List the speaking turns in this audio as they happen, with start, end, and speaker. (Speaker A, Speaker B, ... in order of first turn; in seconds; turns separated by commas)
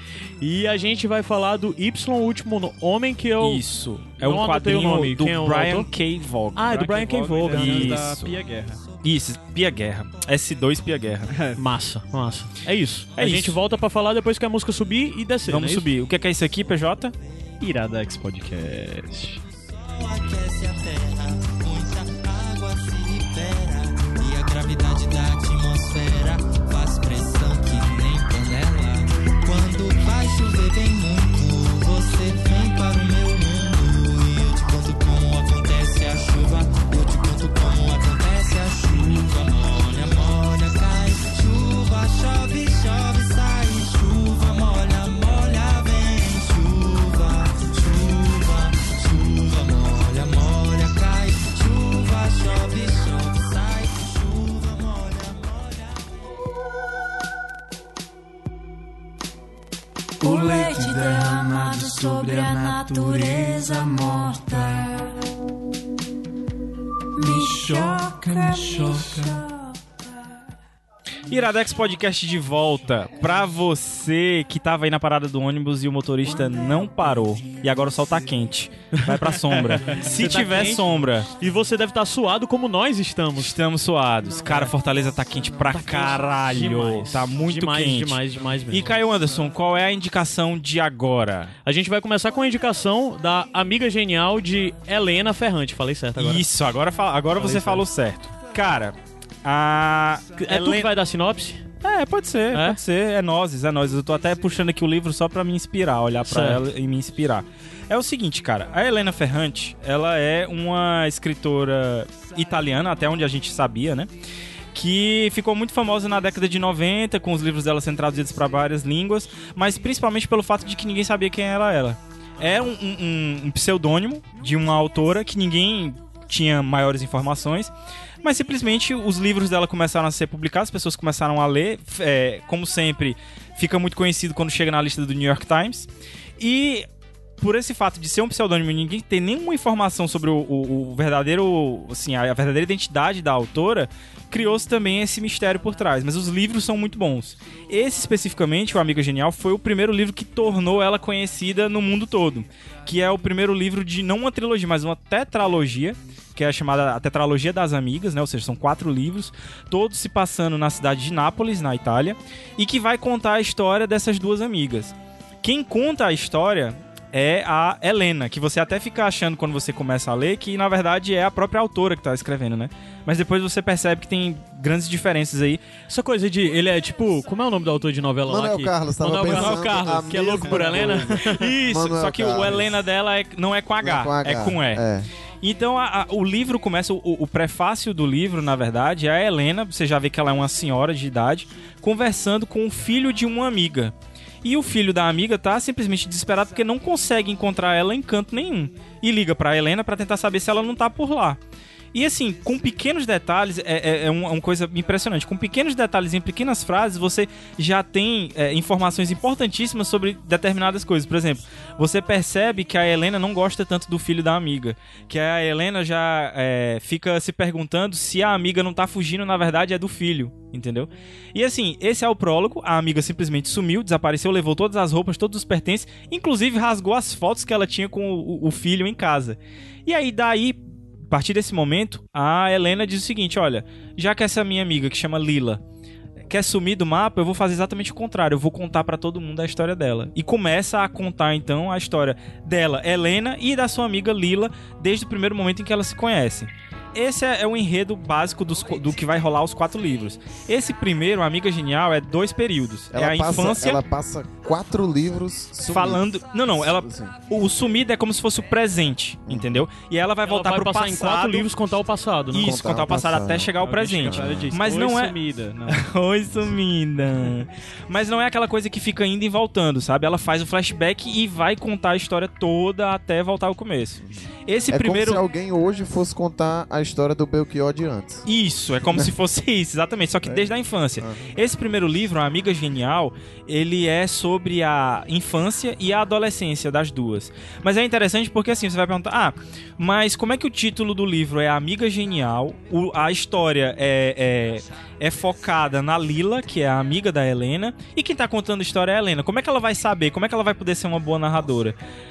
Speaker A: 0.4-3.6, Speaker B: 3.4-6.8, Speaker A: 4.2-5.9, Speaker A: 6.5-8.0, Speaker C: 6.7-8.8, Speaker B: 7.5-8.4, Speaker B: 9.0-11.3, Speaker C: 11.3-11.6, Speaker A: 11.6-15.9, Speaker B: 13.2-13.6, Speaker B: 15.5-17.1, Speaker C: 17.6-19.4, Speaker D: 21.9-46.9, Speaker D: 48.0-48.8, Speaker D: 49.3-55.1, Speaker E: 60.2-65.2, Speaker E: 67.2-69.7, Speaker B: 71.3-81.3, Speaker A: 78.9-83.5, Speaker B: 83.4-91.5, Speaker A: 84.5-84.7, Speaker A: 85.7-89.0, Speaker A: 91.7-96.5, Speaker B: 96.2-100.9, Speaker A: 97.4-97.8, Speaker A: 100.4-101.7, Speaker B: 101.8-114.1, Speaker A: 102.5-102.8, Speaker A: 106.2-106.6, Speaker B: 114.7-127.7, Speaker B: 128.2-135.9, Speaker B: 136.4-136.9, Speaker B: 137.4-175.6, Speaker A: 175.9-181.9, Speaker F: 178.2-182.8, Speaker B: 179.2-181.0, Speaker B: 181.7-184.8, Speaker F: 183.8-185.1, Speaker B: 185.4-201.4, Speaker B: 201.9-235.6, Speaker B: 236.3-253.8, Speaker F: 252.9-257.1, Speaker B: 255.7-261.5, Speaker F: 259.3-259.6, Speaker A: 260.3-262.5, Speaker B: 262.3-265.1, Speaker F: 262.3-264.6, Speaker C: 263.6-265.8, Speaker B: 265.7-275.2, Speaker F: 274.1-278.3, Speaker B: 278.3-301.8, Speaker F: 280.2-281.3